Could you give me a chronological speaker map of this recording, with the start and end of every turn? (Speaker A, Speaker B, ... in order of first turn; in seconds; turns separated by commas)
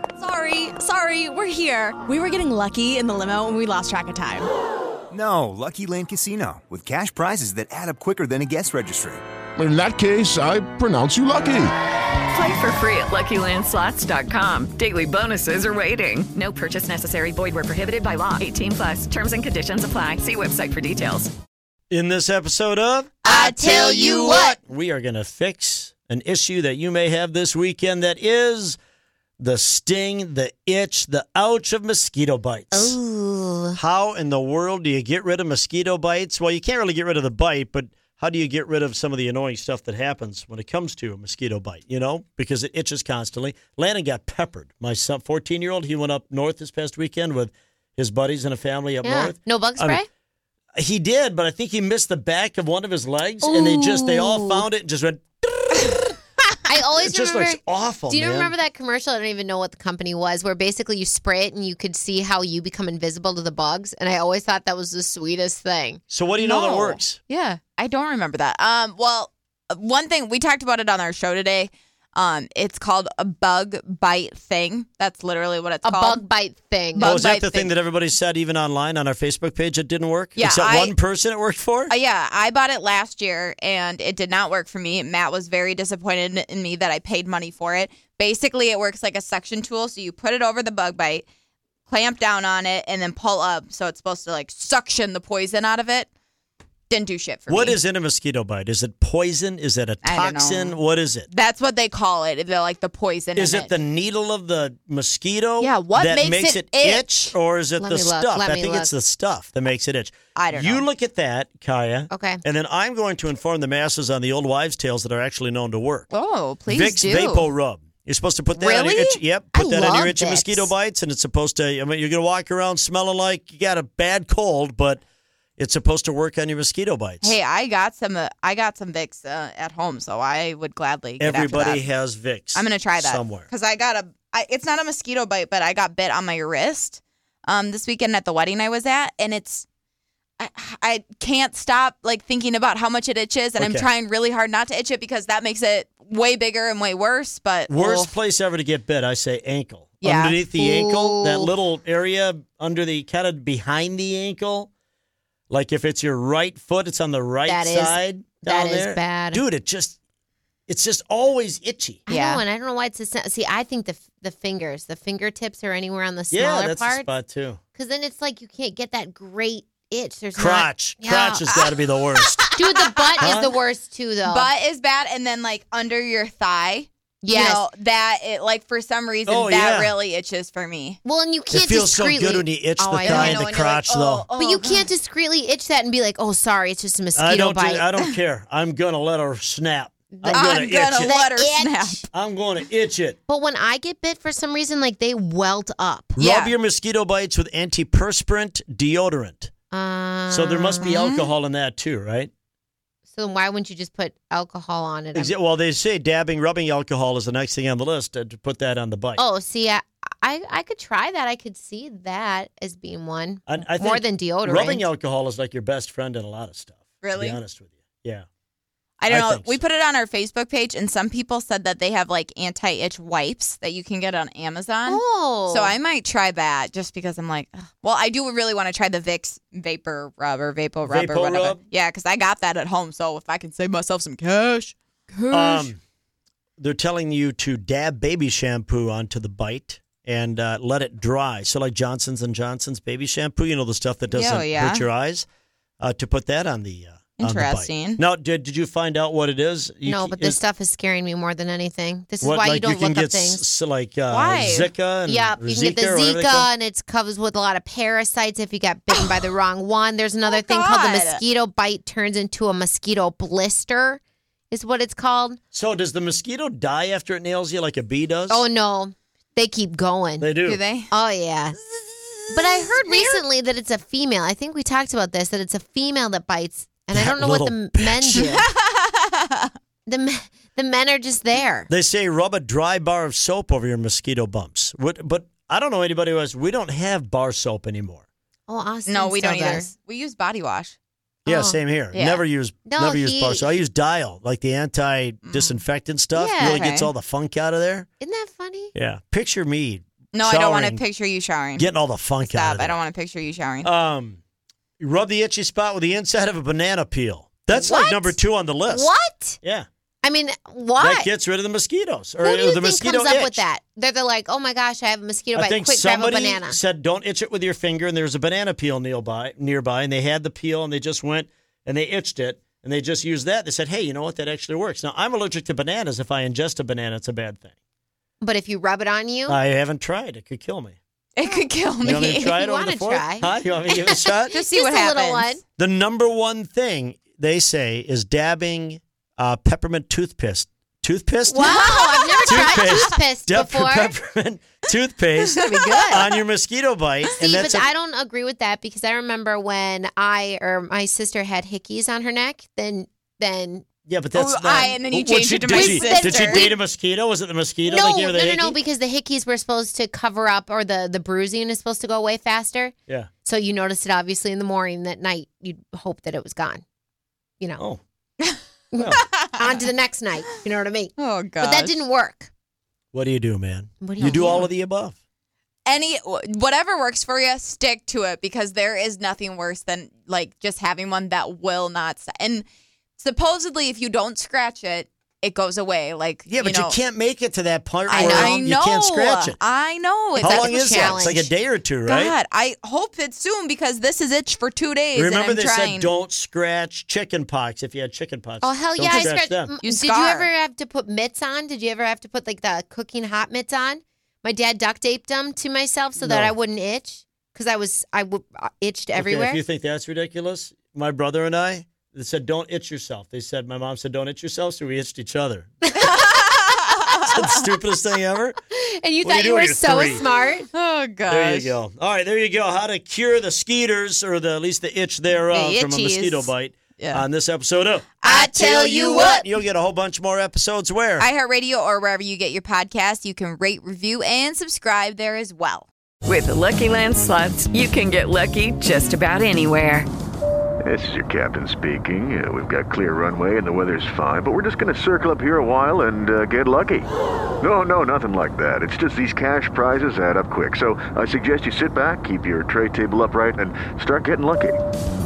Speaker A: 0.2-4.5, Speaker B: 5.1-9.2, Speaker C: 9.6-11.7, Speaker D: 12.3-21.3, Speaker E: 21.9-28.8, Speaker F: 23.2-24.6, Speaker G: 23.3-24.0, Speaker E: 29.4-33.0, Speaker F: 32.7-33.8, Speaker E: 33.7-50.0, Speaker F: 49.0-50.1, Speaker E: 50.8-56.1, Speaker F: 53.4-54.6, Speaker F: 56.6-66.0, Speaker E: 57.0-58.5, Speaker E: 66.1-67.2, Speaker G: 66.4-76.2, Speaker F: 75.8-77.1, Speaker G: 76.9-77.7, Speaker E: 77.0-81.9, Speaker G: 80.3-81.0, Speaker G: 81.9-91.2, Speaker G: 91.9-96.1, Speaker G: 96.9-97.8, Speaker E: 97.5-101.3, Speaker G: 100.0-103.7, Speaker E: 103.3-116.1, Speaker G: 105.6-107.3, Speaker F: 107.8-108.9, Speaker G: 110.3-110.9, Speaker F: 112.1-112.4, Speaker G: 116.1-117.5, Speaker E: 116.7-125.0, Speaker G: 118.6-119.2, Speaker F: 119.5-120.7, Speaker E: 125.6-127.3, Speaker G: 127.2-131.9, Speaker E: 131.2-133.5, Speaker G: 132.5-139.7, Speaker G: 140.4-148.1, Speaker E: 143.6-143.9, Speaker E: 147.7-154.7, Speaker G: 150.0-150.4, Speaker F: 150.6-151.5, Speaker E: 155.5-160.0, Speaker F: 157.5-159.4, Speaker E: 160.7-162.0, Speaker F: 162.1-167.1, Speaker G: 162.1-162.4, Speaker E: 166.3-167.6, Speaker F: 167.7-171.7, Speaker E: 170.3-172.5, Speaker G: 172.4-173.3, Speaker F: 172.5-174.5, Speaker E: 173.2-173.5, Speaker G: 174.2-181.0, Speaker F: 177.2-177.6, Speaker E: 179.3-179.9, Speaker F: 181.0-183.6, Speaker E: 181.5-184.2, Speaker G: 183.0-184.9, Speaker F: 184.3-187.9, Speaker E: 187.2-191.2, Speaker F: 190.1-192.1, Speaker G: 190.3-192.0, Speaker E: 192.1-193.2, Speaker F: 193.3-196.1, Speaker E: 196.2-199.5, Speaker G: 196.2-196.5, Speaker F: 199.7-201.3, Speaker E: 200.3-202.3, Speaker F: 203.1-205.3, Speaker E: 205.1-209.2, Speaker F: 209.2-214.8, Speaker E: 213.5-218.2, Speaker G: 217.0-217.4, Speaker G: 219.0-235.7, Speaker E: 219.1-219.6, Speaker F: 224.9-225.7, Speaker E: 230.8-231.6, Speaker E: 235.3-235.8, Speaker E: 236.6-245.2, Speaker G: 244.1-244.8, Speaker E: 245.8-250.4, Speaker G: 247.2-248.0, Speaker F: 249.8-253.4, Speaker E: 252.2-256.5, Speaker G: 254.1-254.7, Speaker F: 255.1-264.0, Speaker G: 260.3-261.2, Speaker F: 264.5-265.4, Speaker E: 265.5-268.4, Speaker F: 268.3-270.3, Speaker E: 270.2-270.6, Speaker G: 270.4-270.9, Speaker F: 270.9-271.6, Speaker F: 272.3-278.5, Speaker G: 272.5-273.2, Speaker E: 276.9-278.3, Speaker G: 278.1-278.6, Speaker F: 279.9-281.7, Speaker E: 281.7-288.0, Speaker F: 288.5-289.7, Speaker G: 288.9-290.8, Speaker E: 291.2-297.9, Speaker F: 291.3-291.6, Speaker G: 291.9-292.2, Speaker F: 292.6-293.6, Speaker G: 295.2-295.6, Speaker F: 296.1-296.6, Speaker G: 296.4-296.9, Speaker F: 298.0-298.7, Speaker E: 298.7-300.8, Speaker G: 300.1-303.7, Speaker E: 301.6-302.8, Speaker E: 303.6-304.2, Speaker E: 304.8-309.7, Speaker F: 307.5-309.4, Speaker F: 310.0-311.1, Speaker E: 310.8-313.4, Speaker F: 312.2-316.6, Speaker E: 315.3-327.5, Speaker F: 328.2-329.4, Speaker E: 329.3-330.8, Speaker G: 331.1-332.3, Speaker F: 331.3-335.4, Speaker E: 331.8-334.3, Speaker G: 334.3-335.4, Speaker E: 335.6-347.7, Speaker F: 341.3-343.9, Speaker G: 341.4-343.0, Speaker G: 345.4-346.0, Speaker F: 345.4-346.1, Speaker F: 347.2-353.6, Speaker E: 353.9-358.6, Speaker G: 354.1-356.5, Speaker F: 355.5-356.6, Speaker F: 357.6-366.6, Speaker F: 368.7-372.3, Speaker E: 368.8-369.1, Speaker G: 369.0-369.5, Speaker G: 371.0-371.8, Speaker E: 372.9-374.9, Speaker F: 373.8-374.5, Speaker G: 374.0-374.5, Speaker G: 375.7-382.4, Speaker G: 383.0-386.8, Speaker E: 386.3-389.4, Speaker F: 387.9-388.5, Speaker G: 387.9-391.2, Speaker F: 390.2-391.3, Speaker E: 390.2-392.1, Speaker G: 391.9-395.9, Speaker E: 394.9-399.5, Speaker F: 398.4-409.4, Speaker G: 398.8-400.3, Speaker E: 406.0-406.3, Speaker E: 408.9-415.5, Speaker F: 415.8-416.1, Speaker G: 415.8-416.9, Speaker E: 417.0-418.4, Speaker F: 418.6-420.5, Speaker E: 419.0-420.0, Speaker G: 420.5-421.5, Speaker E: 421.1-431.1, Speaker G: 425.3-427.1, Speaker G: 428.0-429.2, Speaker F: 428.1-429.3, Speaker G: 431.0-435.7, Speaker D: 436.0-439.9, Speaker H: 440.6-446.9, Speaker H: 447.4-454.6